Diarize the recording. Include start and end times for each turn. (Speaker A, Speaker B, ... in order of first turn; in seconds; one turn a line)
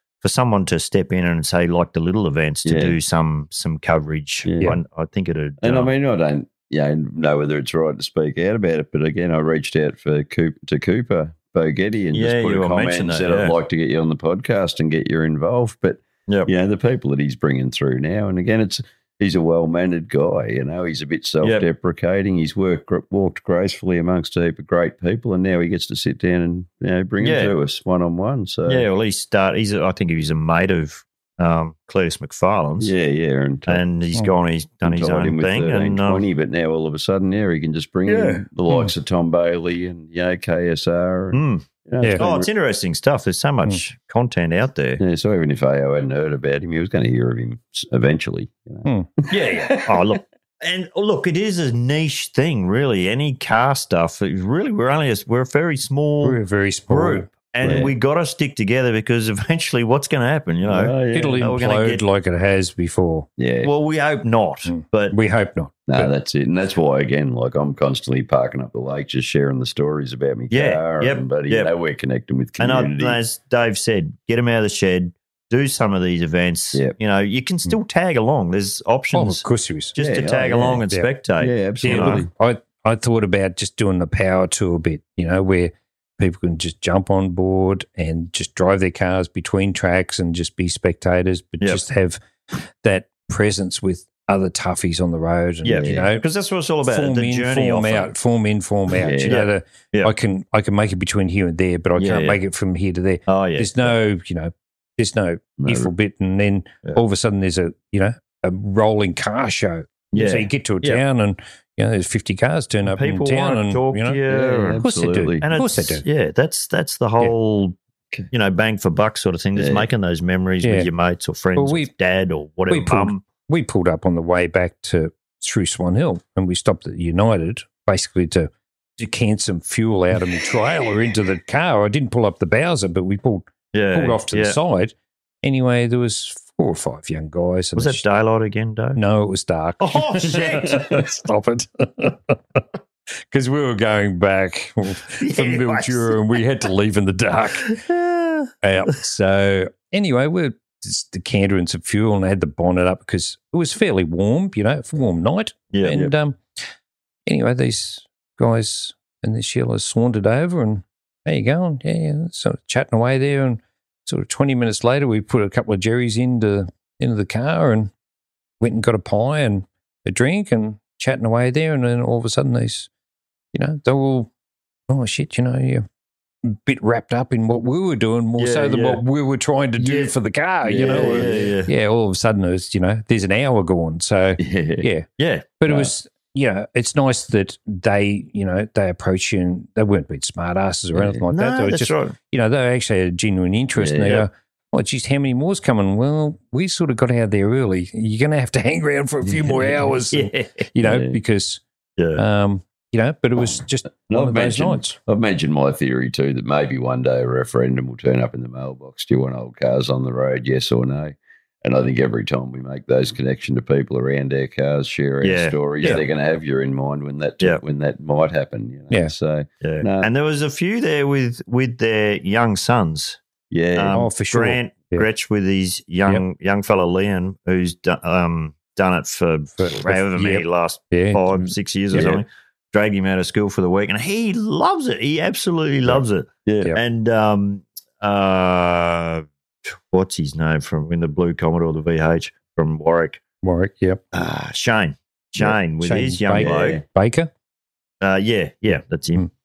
Speaker A: 0.2-5.9
Speaker B: 2.6-3.0
Speaker B: 4.5-4.8
Speaker B: 5.6-28.9
Speaker A: 12.1-13.6
Speaker A: 27.2-27.5
Speaker A: 28.7-32.9
Speaker B: 32.8-33.8
Speaker A: 33.7-36.2
Speaker B: 34.8-42.5
Speaker A: 38.1-38.5
Speaker A: 41.3-45.0
Speaker B: 45.0-50.2
Speaker A: 49.3-62.0
Speaker C: 56.2-57.8
Speaker B: 57.6-57.9
Speaker B: 60.6-61.4
Speaker C: 61.1-63.3
Speaker B: 63.4-63.7
Speaker A: 63.6-65.2
Speaker C: 64.7-66.1
Speaker B: 65.9-73.2
Speaker A: 70.5-71.7
Speaker A: 72.6-82.2
Speaker C: 79.1-80.0
Speaker B: 80.0-80.8
Speaker B: 81.4-82.3
Speaker C: 81.8-92.2
Speaker C: 92.8-96.2
Speaker A: 95.7-98.1
Speaker B: 95.8-96.1
Speaker C: 96.9-114.2
Speaker B: 98.9-99.4
Speaker A: 99.3-100.1
Speaker A: 102.0-102.4
Speaker A: 103.3-103.9
Speaker B: 105.6-105.9
Speaker A: 110.1-111.0
Speaker A: 112.9-114.8
Speaker B: 114.3-115.4
Speaker C: 114.8-116.0
Speaker A: 115.4-117.8
Speaker A: 118.3-123.2
Speaker B: 119.5-119.9
Speaker C: 120.6-120.9
Speaker C: 121.6-121.9
Speaker C: 122.7-138.0
Speaker A: 133.7-134.6
Speaker A: 137.8-139.0
Speaker C: 139.0-142.6
Speaker A: 139.8-141.1
Speaker C: 143.3-147.7
Speaker A: 145.2-146.2
Speaker A: 147.7-148.5
Speaker C: 148.6-156.4
Speaker A: 155.7-156.0
Speaker C: 157.3-167.9
Speaker C: 168.6-172.9
Speaker C: 173.5-174.3
Speaker C: 174.9-175.9
Speaker C: 176.4-185.1
Speaker A: 178.4-179.0
Speaker A: 179.8-180.1
Speaker B: 180.6-181.6
Speaker A: 180.7-181.7
Speaker B: 184.4-184.9
Speaker A: 185.2-185.6
Speaker C: 185.6-201.6
Speaker B: 190.9-191.2
Speaker A: 191.3-192.2
Speaker B: 193.8-194.2
Speaker B: 199.3-199.9
Speaker A: 200.1-200.7
Speaker B: 200.8-201.2
Speaker A: 202.0-202.2
Speaker C: 202.2-205.0
Speaker B: 204.1-220.1
Speaker A: 215.2-216.0
Speaker A: 219.6-223.2
Speaker B: 223.5-224.0
Speaker A: 223.8-239.3
Speaker C: 223.9-225.1
Speaker C: 229.6-231.5
Speaker B: 231.9-232.2
Speaker B: 235.8-236.7
Speaker A: 239.9-243.2
Speaker C: 243.4-244.0
Speaker A: 244.1-246.8
Speaker C: 245.8-247.3
Speaker B: 246.4-246.8
Speaker A: 248.0-249.3